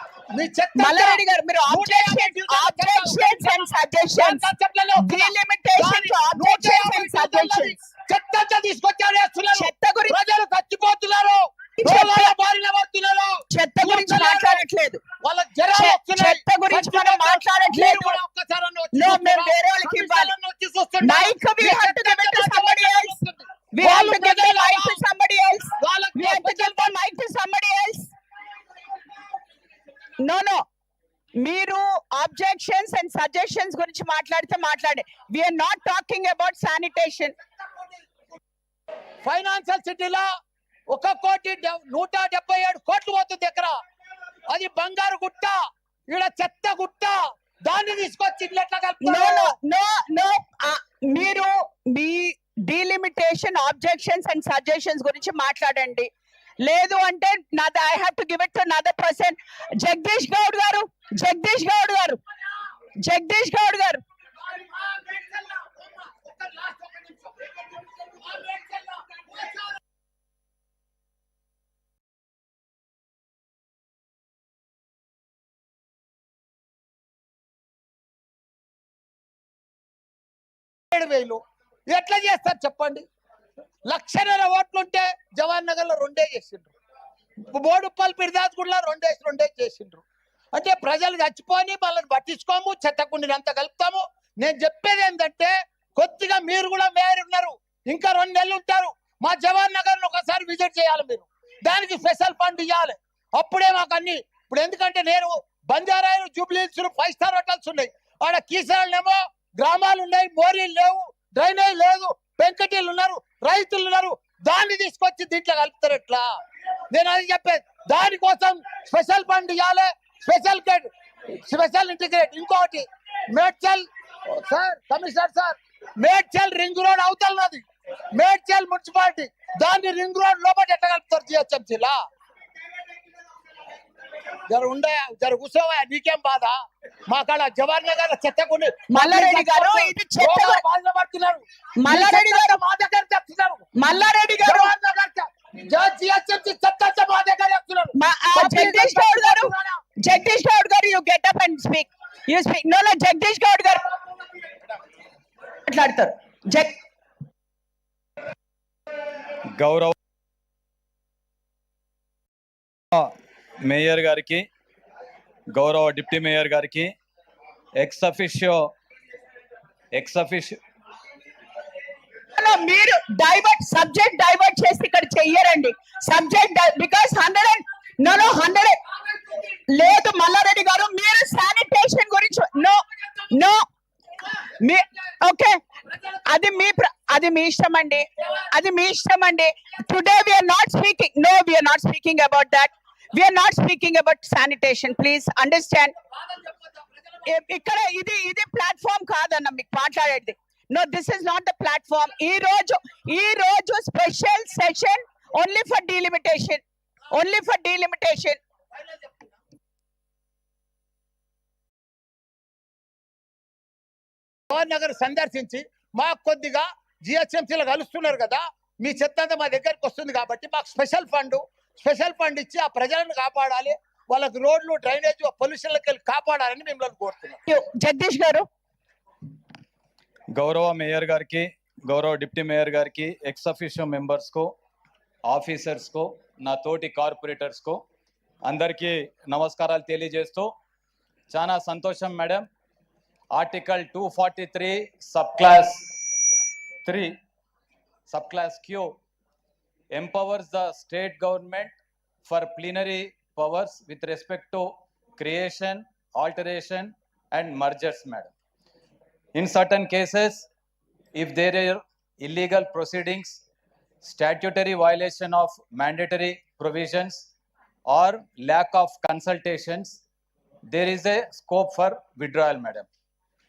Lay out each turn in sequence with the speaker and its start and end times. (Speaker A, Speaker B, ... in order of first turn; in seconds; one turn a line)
Speaker A: 0.3-14.7
Speaker B: 0.8-7.8
Speaker B: 9.5-10.2
Speaker B: 11.8-12.4
Speaker B: 13.5-15.0
Speaker A: 15.2-25.0
Speaker B: 15.7-18.2
Speaker B: 18.9-20.3
Speaker B: 21.0-23.2
Speaker B: 23.7-28.1
Speaker A: 25.8-26.9
Speaker B: 30.2-30.6
Speaker B: 31.4-37.4
Speaker A: 39.2-40.3
Speaker A: 40.9-43.7
Speaker A: 44.5-45.6
Speaker A: 46.1-49.5
Speaker B: 49.0-56.1
Speaker B: 56.6-62.2
Speaker B: 63.0-64.0
Speaker A: 64.5-69.8
Speaker A: 80.9-81.4
Speaker A: 81.9-83.0
Speaker A: 83.9-86.7
Speaker A: 87.5-90.0
Speaker A: 90.5-116.2
Speaker A: 116.9-120.9
Speaker A: 121.4-127.6
Speaker A: 128.2-132.0
Speaker A: 134.5-136.6
Speaker A: 137.1-143.7
Speaker B: 138.9-140.6
Speaker B: 141.8-142.6
Speaker B: 143.8-144.7
Speaker A: 144.4-149.8
Speaker B: 147.9-153.8
Speaker B: 155.7-156.8
Speaker C: 159.6-159.9
Speaker C: 163.7-164.4
Speaker C: 165.5-166.9
Speaker C: 167.8-168.7
Speaker C: 169.9-170.6
Speaker B: 172.3-178.8
Speaker B: 179.7-183.6
Speaker B: 184.5-185.6
Speaker B: 186.2-195.9
Speaker A: 196.2-196.9
Speaker B: 197.2-208.4
Speaker A: 214.5-227.4
Speaker B: 227.5-228.5
Speaker C: 230.3-234.5
Speaker C: 235.3-237.8
Speaker C: 238.5-240.5
Speaker C: 241.3-242.5
Speaker C: 243.3-245.9
Speaker C: 246.9-247.2
Speaker C: 248.1-249.0
Speaker C: 249.9-258.3
Speaker C: 259.4-260.5
Speaker C: 261.1-263.4
Speaker C: 264.0-267.3
Speaker C: 267.9-270.0
Speaker C: 270.7-272.9